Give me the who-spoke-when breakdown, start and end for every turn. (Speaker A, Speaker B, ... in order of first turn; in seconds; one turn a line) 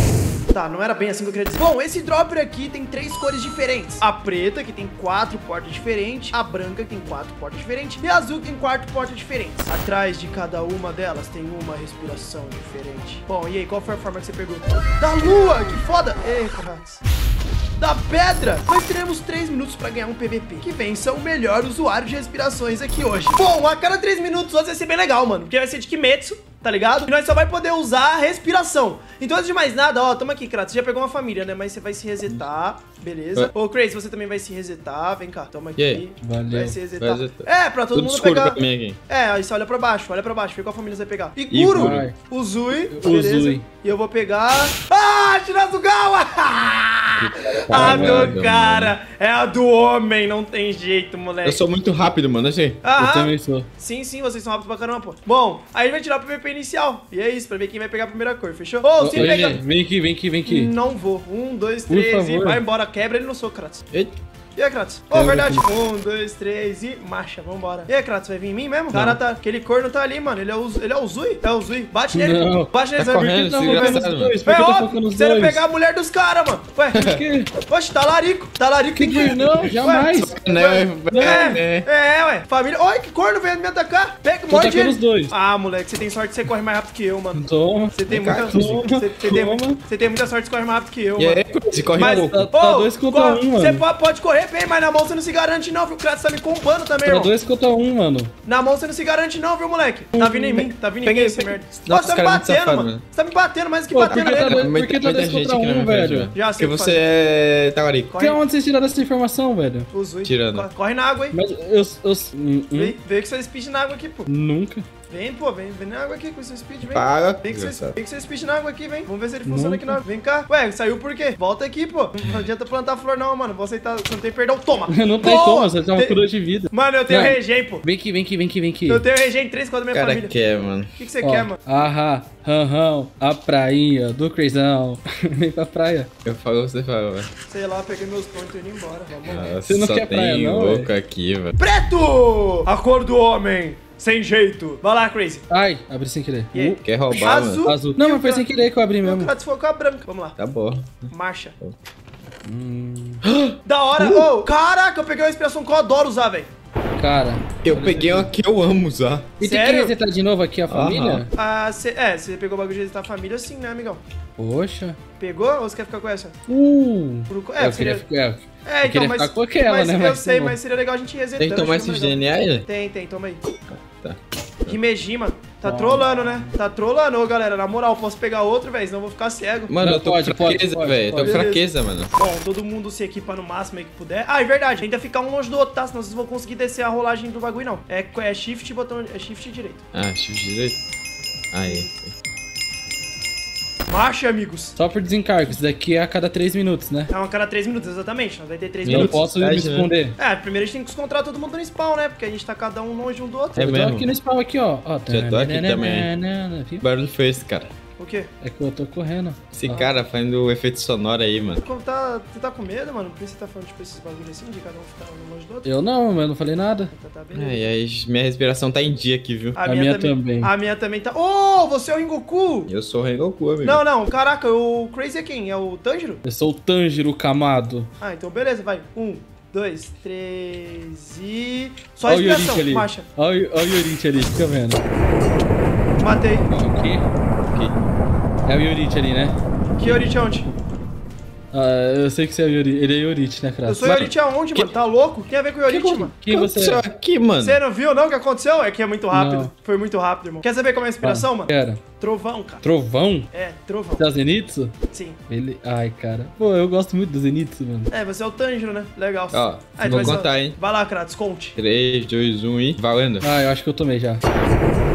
Speaker A: 0.5-17.0
Speaker A: 17.8-51.6
Speaker B: 35.8-36.0
Speaker C: 36.2-36.8
Speaker B: 37.0-39.0
Speaker B: 41.5-42.1
Speaker C: 41.7-42.1
Speaker C: 42.9-43.6
Speaker B: 47.2-49.0
Speaker C: 47.7-48.4
Speaker B: 51.4-52.8
Speaker A: 52.8-59.6
Speaker C: 53.0-53.7
Speaker C: 59.0-60.7
Speaker B: 59.1-59.6
Speaker A: 60.4-63.8
Speaker C: 61.9-62.6
Speaker B: 63.9-64.2
Speaker A: 64.5-77.1
Speaker C: 65.1-65.6
Speaker C: 68.9-69.2
Speaker C: 72.1-75.6
Speaker B: 73.0-74.4
Speaker B: 77.0-77.2
Speaker C: 77.0-77.5
Speaker A: 77.7-97.3
Speaker C: 78.9-80.3
Speaker B: 80.1-81.9
Speaker C: 81.1-81.5
Speaker C: 84.5-85.3
Speaker C: 87.3-89.8
Speaker B: 88.1-88.8
Speaker B: 91.2-92.5
Speaker C: 92.0-93.8
Speaker C: 97.0-98.3
Speaker A: 98.4-104.7
Speaker C: 100.1-100.7
Speaker B: 101.0-103.0
Speaker C: 103.9-106.3
Speaker B: 104.1-108.1
Speaker A: 106.3-107.0
Speaker A: 108.1-108.4
Speaker C: 108.2-109.9
Speaker A: 109.9-111.4
Speaker B: 110.2-110.7
Speaker C: 111.3-113.0
Speaker A: 112.7-114.3
Speaker C: 114.3-114.8
Speaker A: 115.1-127.8
Speaker B: 116.9-118.0
Speaker C: 119.5-120.0
Speaker C: 124.9-129.0
Speaker A: 128.9-130.3
Speaker B: 129.9-131.0
Speaker A: 130.9-131.6
Speaker C: 131.2-136.1
Speaker B: 136.2-137.3
Speaker A: 137.5-139.5
Speaker B: 139.2-141.6
Speaker C: 139.7-140.9
Speaker A: 141.6-145.4
Speaker C: 145.5-146.8
Speaker A: 146.5-148.4
Speaker B: 146.8-147.7
Speaker C: 147.6-149.3
Speaker A: 149.0-150.4
Speaker B: 150.4-151.7
Speaker A: 151.1-151.6
Speaker C: 152.4-153.2
Speaker B: 153.2-154.3
Speaker A: 153.6-156.5
Speaker C: 157.0-158.3
Speaker B: 157.6-159.3
Speaker C: 159.4-161.3
Speaker A: 159.4-159.9
Speaker B: 160.7-161.2
Speaker A: 161.3-164.0
Speaker C: 164.4-165.0
Speaker A: 165.2-166.4
Speaker C: 166.5-170.6
Speaker A: 167.3-168.0
Speaker A: 168.6-173.4
Speaker B: 171.4-172.7
Speaker B: 173.7-174.8
Speaker A: 174.7-179.7
Speaker C: 175.6-176.5
Speaker B: 179.7-182.1
Speaker C: 179.8-181.5
Speaker A: 181.2-189.8
Speaker B: 189.9-190.8
Speaker B: 191.5-192.1
Speaker A: 193.9-194.8
Speaker C: 194.8-197.1
Speaker A: 197.1-199.2
Speaker C: 198.8-200.2
Speaker B: 198.8-199.9
Speaker A: 200.2-203.8
Speaker B: 203.6-204.1
Speaker C: 203.6-206.8
Speaker B: 205.1-206.1
Speaker B: 206.8-207.7
Speaker A: 208.0-208.3
Speaker C: 208.4-210.0
Speaker B: 209.5-211.6
Speaker A: 211.6-215.7
Speaker C: 215.6-216.9
Speaker A: 216.9-217.7
Speaker B: 217.3-219.6
Speaker A: 219.6-222.7
Speaker C: 219.7-220.5
Speaker B: 222.7-223.8
Speaker A: 223.6-226.2
Speaker C: 226.2-227.9
Speaker A: 228.0-233.1
Speaker C: 232.0-234.8
Speaker A: 236.0-236.5
Speaker C: 236.5-237.1
Speaker B: 237.5-237.9
Speaker C: 238.4-239.3
Speaker A: 239.7-240.5
Speaker C: 241.5-244.1
Speaker A: 243.6-246.1
Speaker B: 243.8-244.6
Speaker C: 245.7-246.8
Speaker B: 246.0-247.6
Speaker A: 247.4-252.6
Speaker C: 249.1-249.5
Speaker C: 251.0-251.8
Speaker C: 252.6-253.3
Speaker A: 253.3-254.1
Speaker C: 254.0-254.7
Speaker A: 254.9-255.2
Speaker C: 255.3-257.9
Speaker A: 257.9-261.6
Speaker B: 259.3-260.6
Speaker C: 259.9-260.2
Speaker B: 261.6-263.3
Speaker C: 263.2-264.2